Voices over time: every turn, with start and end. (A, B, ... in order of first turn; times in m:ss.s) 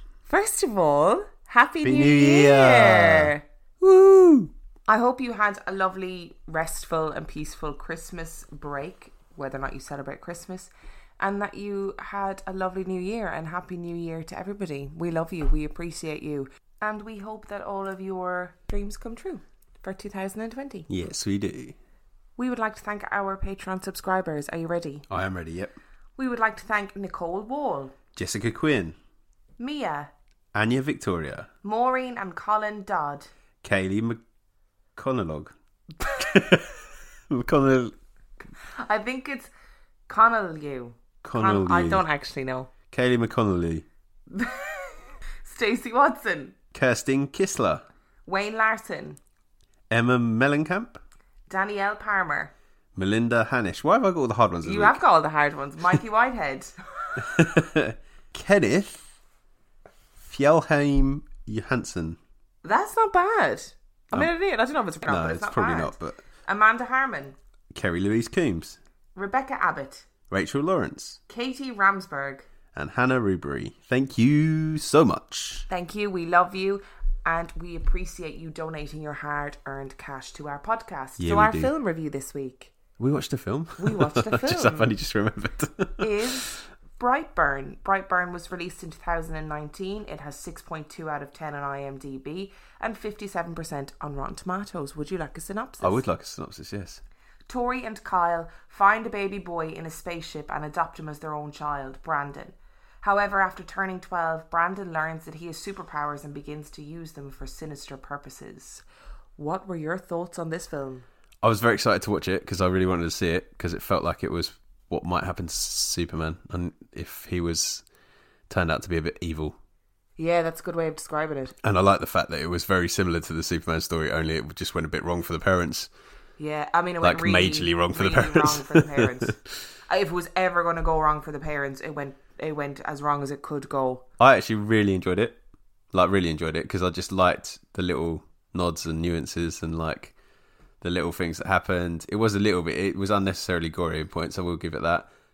0:00.2-0:03.4 A
0:01.8-0:04.5 B
0:04.9-0:20.9 A
0:20.9-0:21.8 B
0:22.4-0:25.0 A
0:25.1-0:25.8 B
0:26.2-0:28.0 A
0:28.2-0:29.0 B
0:29.6-0:30.1 A
0:30.5-0:31.5 B
0:31.6-0:33.3 A
0:33.6-0:34.2 B
0:35.0-0:38.0 B
0:38.6-0:39.5 A
0:40.1-0:42.7 A
0:41.2-0:42.0 B
0:42.9-0:43.8 B
0:44.3-0:46.6 A
0:46.7-0:47.8 B
0:48.2-0:49.2 A
0:49.9-0:51.0 B
0:51.5-0:52.5 A
0:52.9-0:55.0 B
0:54.6-0:57.3 A
0:57.2-0:59.1 B
1:00.2-1:02.2 B
1:02.6-1:07.4 A
1:05.1-1:06.2 B
1:07.7-1:08.8 B
1:09.1-1:10.1 A
1:10.3-1:11.2 B
1:11.3-1:12.5 A
1:12.7-1:15.7 B
1:15.7-1:22.7 A
1:21.2-1:21.7 B
1:23.0-1:26.6 B
1:23.8-1:24.9 A
1:26.0-1:36.0 A
1:35.8-1:37.0 B
1:37.5-1:48.8 A
1:49.4-1:51.0 A
1:51.4-1:57.8 B
1:58.5-1:59.6 B
2:00.2-2:01.6 A
2:01.6-2:05.9 B
2:06.4-2:14.0 A
2:07.0-2:09.6 B
2:14.2-2:15.4 B
2:15.9-2:20.1 B
2:20.8-2:25.1 B